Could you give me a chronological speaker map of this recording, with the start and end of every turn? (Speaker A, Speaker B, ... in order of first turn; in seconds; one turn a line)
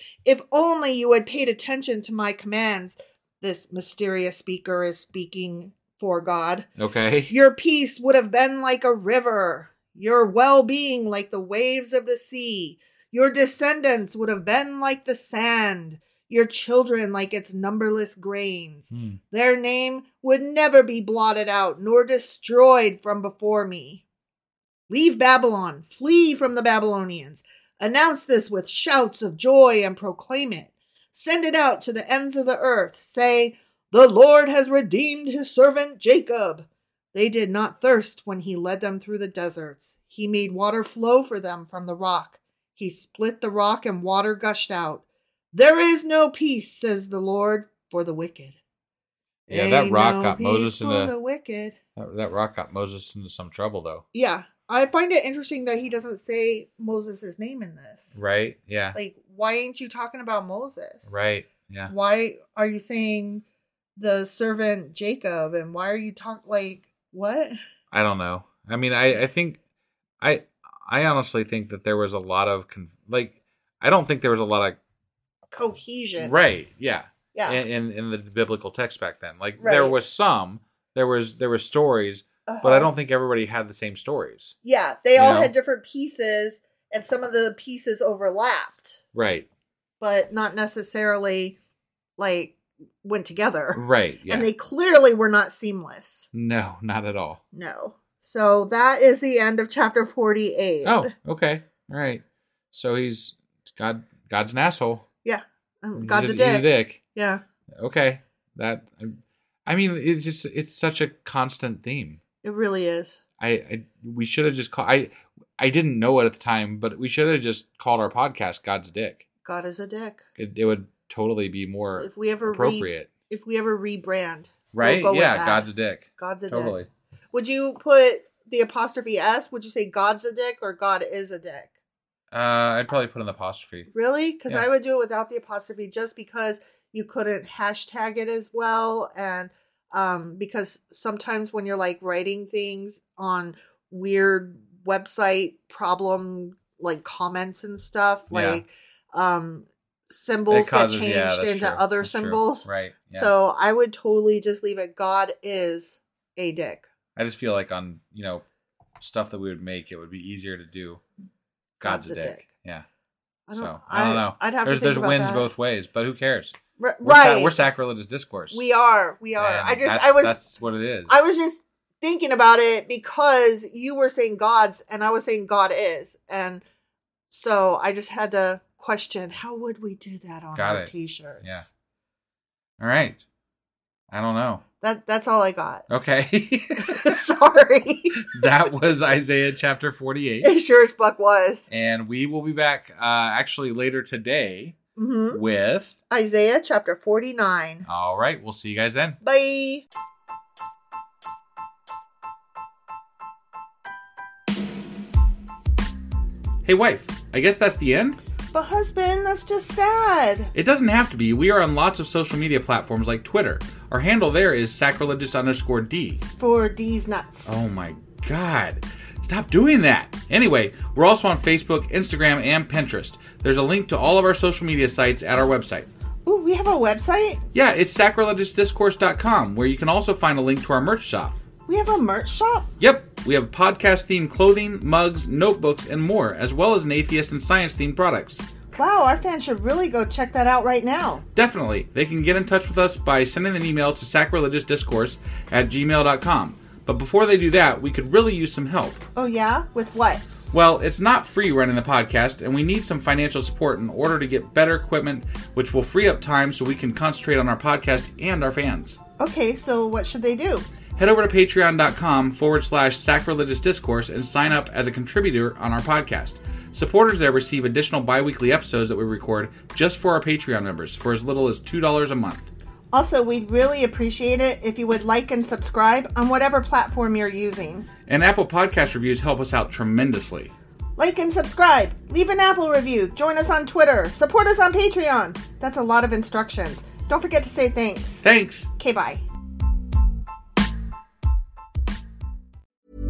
Speaker A: 0.2-6.7
Speaker B: 6.8-7.3
Speaker A: 7.3-24.0
Speaker B: 18.9-19.2
Speaker A: 24.9-48.5
Speaker A: 49.5-51.8
Speaker B: 49.5-51.1
Speaker B: 52.0-54.0
Speaker A: 54.1-58.2
Speaker B: 58.1-59.0
Speaker A: 58.9-61.2
Speaker B: 61.1-61.9
Speaker A: 61.9-63.4
Speaker A: 64.0-67.5
Speaker B: 67.9-69.6
Speaker B: 70.2-74.8
Speaker A: 75.5-76.4
Speaker B: 76.2-84.5
Speaker A: 77.3-77.6
Speaker A: 79.6-80.0
Speaker A: 82.5-82.9
Speaker A: 84.6-89.0
Speaker B: 85.2-85.5
Speaker B: 89.1-89.5
Speaker A: 90.0-91.6
Speaker A: 92.2-96.3
Speaker B: 93.7-94.5
Speaker B: 96.3-97.4
Speaker A: 97.5-101.1
Speaker B: 100.8-105.0
Speaker A: 105.2-107.4
Speaker B: 106.0-107.0
Speaker B: 107.8-112.2
Speaker A: 112.4-113.2
Speaker B: 113.4-119.2
Speaker A: 119.4-120.2
Speaker B: 120.4-123.1
Speaker A: 122.0-126.8
Speaker B: 124.7-126.9
Speaker A: 127.3-131.7
Speaker B: 132.3-133.9
Speaker A: 133.9-156.9
Speaker B: 148.3-148.6
Speaker B: 150.5-153.3
Speaker B: 157.2-158.4
Speaker B: 159.0-161.0
Speaker A: 161.8-162.4
Speaker B: 161.8-162.8
Speaker A: 163.5-165.5
Speaker B: 163.5-168.6
Speaker A: 166.8-167.6
Speaker A: 168.5-170.4
Speaker B: 169.4-171.2
Speaker A: 171.1-176.6
Speaker A: 177.3-181.7
Speaker B: 180.5-181.6
Speaker B: 182.8-183.2
Speaker B: 184.1-184.6
Speaker A: 184.8-185.8
Speaker B: 185.9-187.1
Speaker A: 186.8-188.5
Speaker B: 188.3-190.5
Speaker A: 190.4-191.7
Speaker B: 191.7-194.7
Speaker A: 195.0-195.4
Speaker B: 195.3-195.9
Speaker A: 196.1-197.8
Speaker B: 197.8-199.2
Speaker A: 199.2-199.8
Speaker B: 206.6-208.2
Speaker A: 208.5-210.5
Speaker B: 210.5-216.2
Speaker A: 216.4-217.6
Speaker B: 217.4-225.9
Speaker A: 226.2-227.4
Speaker B: 227.5-231.4
Speaker A: 231.7-232.7
Speaker B: 232.8-238.4
Speaker A: 238.8-241.2
Speaker B: 241.3-249.1
Speaker A: 249.2-250.2
Speaker B: 250.5-259.0
Speaker A: 259.2-260.6
Speaker B: 261.0-272.5
Speaker A: 272.9-277.9
Speaker B: 278.1-280.5
Speaker A: 281.0-288.2
Speaker B: 288.2-288.7
Speaker A: 288.8-289.2